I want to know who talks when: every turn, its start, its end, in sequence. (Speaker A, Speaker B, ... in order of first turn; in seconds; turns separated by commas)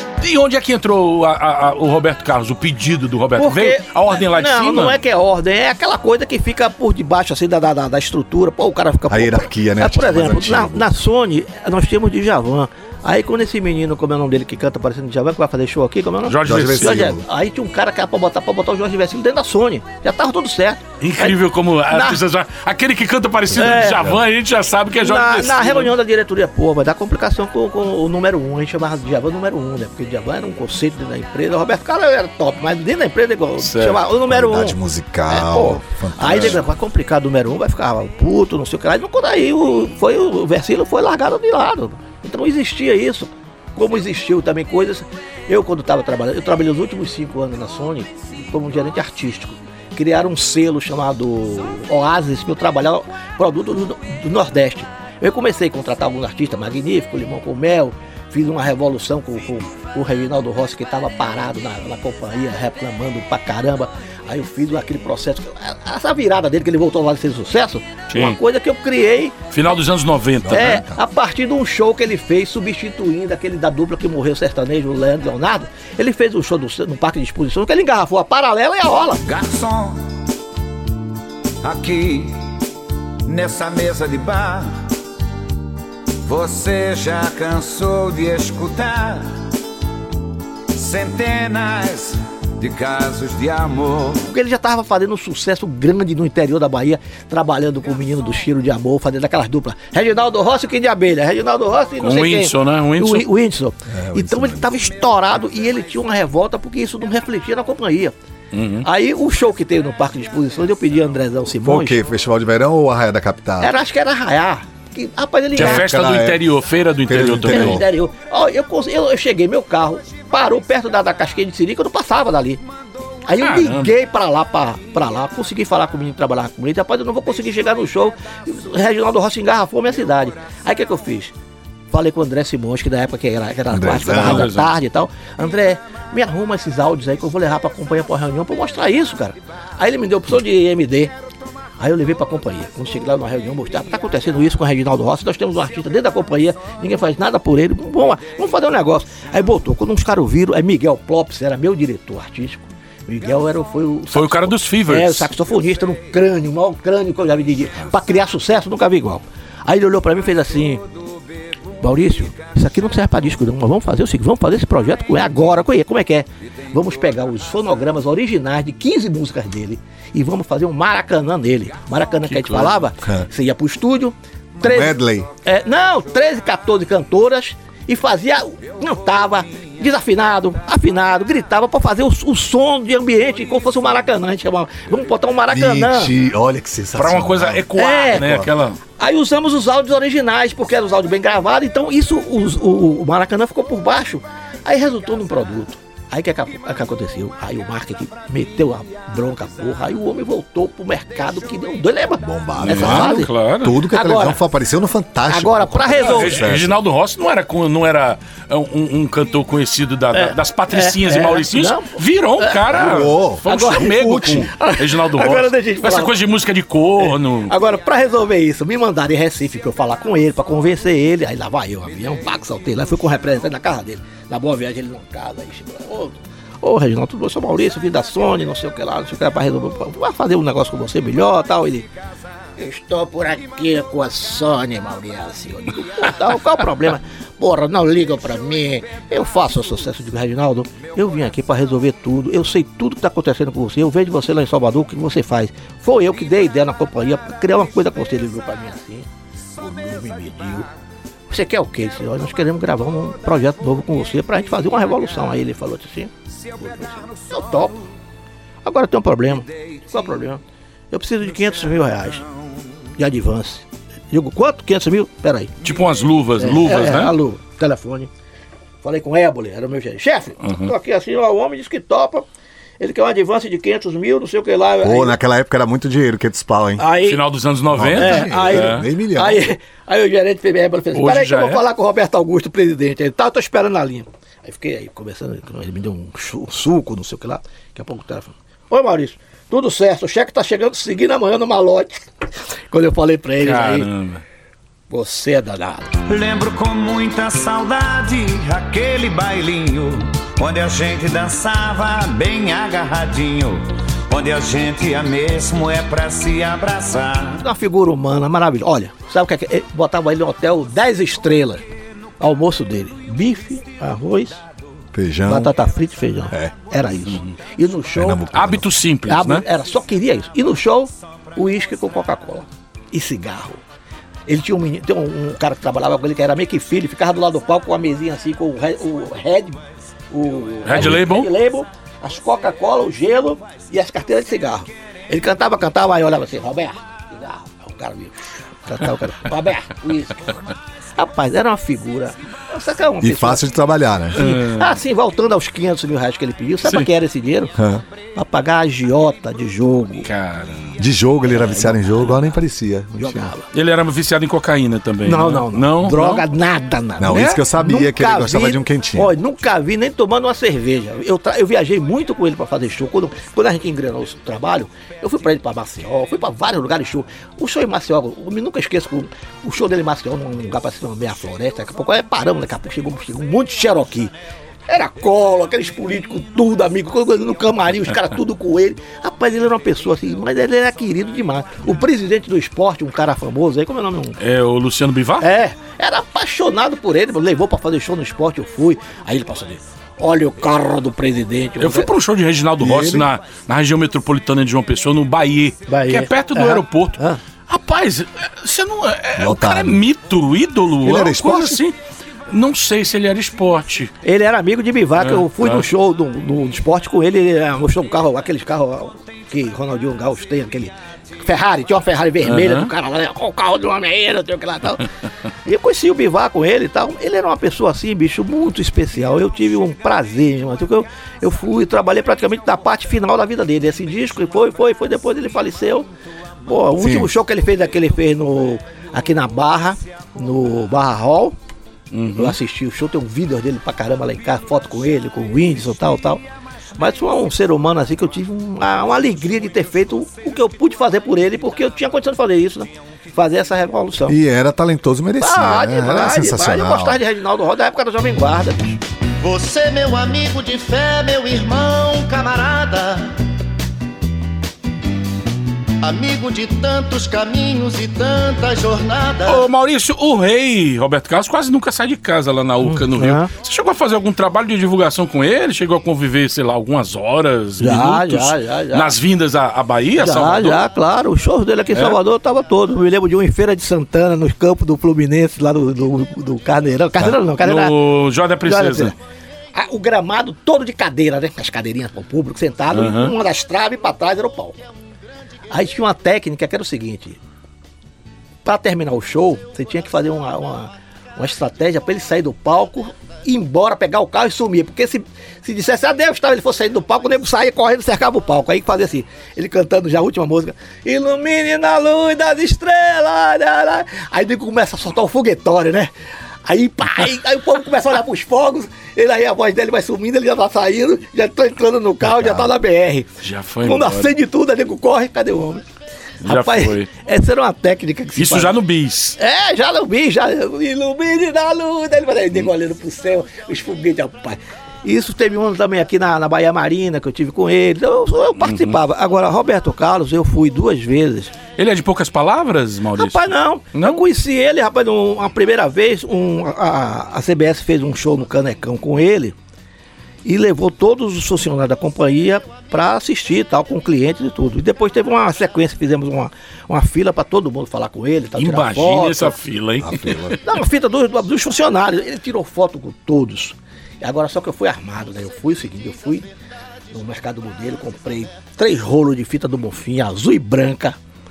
Speaker A: 0.2-5.0, Speaker B: 3.4-21.4, Speaker C: 9.1-10.9, Speaker A: 16.3-17.0, Speaker C: 16.4-17.2, Speaker A: 21.0-25.9, Speaker B: 21.9-22.2, Speaker C: 23.5-24.2, Speaker B: 23.6-24.1, Speaker B: 24.9-34.8, Speaker A: 33.6-34.0, Speaker C: 34.2-36.6, Speaker B: 35.3-69.4, Speaker A: 36.2-36.6, Speaker A: 68.1-68.4, Speaker A: 69.5-70.8, Speaker C: 70.4-71.0, Speaker B: 70.5-79.2, Speaker D: 79.2-80.0, Speaker D: 81.6-82.4, Speaker D: 83.3-84.8, Speaker D: 86.2-89.3, Speaker D: 90.8-94.2, Speaker B: 94.2-108.1, Speaker A: 102.0-103.3, Speaker C: 103.9-104.7, Speaker A: 108.5-108.9, Speaker B: 108.8-112.0, Speaker C: 111.6-113.7, Speaker B: 113.6-115.9, Speaker C: 115.5-116.5, Speaker A: 115.5-117.8, Speaker C: 117.0-117.8, Speaker B: 117.4-122.6, Speaker B: 123.3-131.3, Speaker A: 123.4-123.9, Speaker B: 131.9-141.1, Speaker C: 133.7-134.5, Speaker A: 134.0-134.8, Speaker B: 141.8-160.8, Speaker A: 154.1-155.3, Speaker B: 161.8-186.1, Speaker A: 172.3-172.8, Speaker C: 174.6-175.3, Speaker C: 185.5-188.5, Speaker A: 186.9-188.8, Speaker B: 187.8-188.3, Speaker B: 189.0-203.3, Speaker C: 202.2-206.7, Speaker A: 202.6-203.8, Speaker B: 203.9-204.4, Speaker B: 205.3-206.4, Speaker A: 206.0-217.5, Speaker B: 210.1-216.1, Speaker C: 212.7-214.4, Speaker B: 217.0-231.9, Speaker B: 232.6-249.1, Speaker B: 249.6-250.7, Speaker B: 251.3-257.9, Speaker B: 258.6-262.2, Speaker B: 263.0-265.6, Speaker A: 265.6-267.1, Speaker B: 266.4-268.1, Speaker B: 268.8-272.2, Speaker A: 270.4-270.7, Speaker B: 272.8-275.2, Speaker C: 274.8-276.9, Speaker B: 276.8-277.2, Speaker A: 277.0-278.9, Speaker C: 277.7-279.5, Speaker B: 278.0-292.0, Speaker A: 280.9-281.6, Speaker B: 292.7-293.9, Speaker A: 293.4-294.2, Speaker B: 294.9-296.0, Speaker D: 296.1-307.4, Speaker B: 307.4-311.6, Speaker B: 312.2-314.4, Speaker C: 314.9-315.6, Speaker B: 315.3-318.3, Speaker C: 317.9-318.8, Speaker A: 318.3-319.4, Speaker B: 319.1-323.6, Speaker B: 324.3-329.6, Speaker B: 330.1-343.4, Speaker A: 330.6-331.3, Speaker C: 343.0-344.2, Speaker B: 344.1-347.5, Speaker A: 344.1-344.8, Speaker C: 347.6-347.8, Speaker B: 348.1-350.1, Speaker A: 350.1-350.8, Speaker C: 350.8-353.3, Speaker B: 351.3-352.2, Speaker B: 352.9-353.5, Speaker A: 353.5-356.2, Speaker B: 355.1-374.1, Speaker C: 357.0-359.1, Speaker A: 357.1-357.4, Speaker B: 374.7-384.2, Speaker A: 384.2-385.2, Speaker B: 385.2-391.9, Speaker A: 391.6-401.8, Speaker C: 392.6-393.1, Speaker B: 395.7-397.2, Speaker C: 399.2-399.9, Speaker C: 400.8-401.6, Speaker A: 402.3-403.9, Speaker B: 404.0-414.9, Speaker A: 405.0-405.7, Speaker A: 412.2-412.7, Speaker B: 415.4-425.9, Speaker B: 426.5-431.4, Speaker C: 426.8-427.1, Speaker A: 431.9-432.4, Speaker B: 432.2-436.2, Speaker B: 436.8-444.2, Speaker C: 444.1-447.0, Speaker B: 445.2-448.8, Speaker E: 449.2-453.1, Speaker E: 455.8-459.5, Speaker A: 459.2-470.6, Speaker B: 462.6-463.3, Speaker B: 467.6-468.9, Speaker B: 470.0-477.8, Speaker A: 477.0-478.9, Speaker B: 478.4-478.9, Speaker B: 479.5-484.6, Speaker A: 482.7-483.1, Speaker B: 485.5-487.2, Speaker B: 488.4-505.9, Speaker B: 506.5-513.1, Speaker C: 512.1-512.4, Speaker A: 513.2-514.1, Speaker B: 513.6-515.6, Speaker A: 516.2-516.9, Speaker B: 516.2-518.5, Speaker A: 518.2-519.2, Speaker B: 519.2-531.4, Speaker A: 528.4-528.8, Speaker A: 531.6-534.0, Speaker B: 533.0-539.4, Speaker B: 540.2-549.4, Speaker A: 548.4-550.4, Speaker C: 549.8-550.4, Speaker B: 550.4-556.3, Speaker B: 556.9-561.0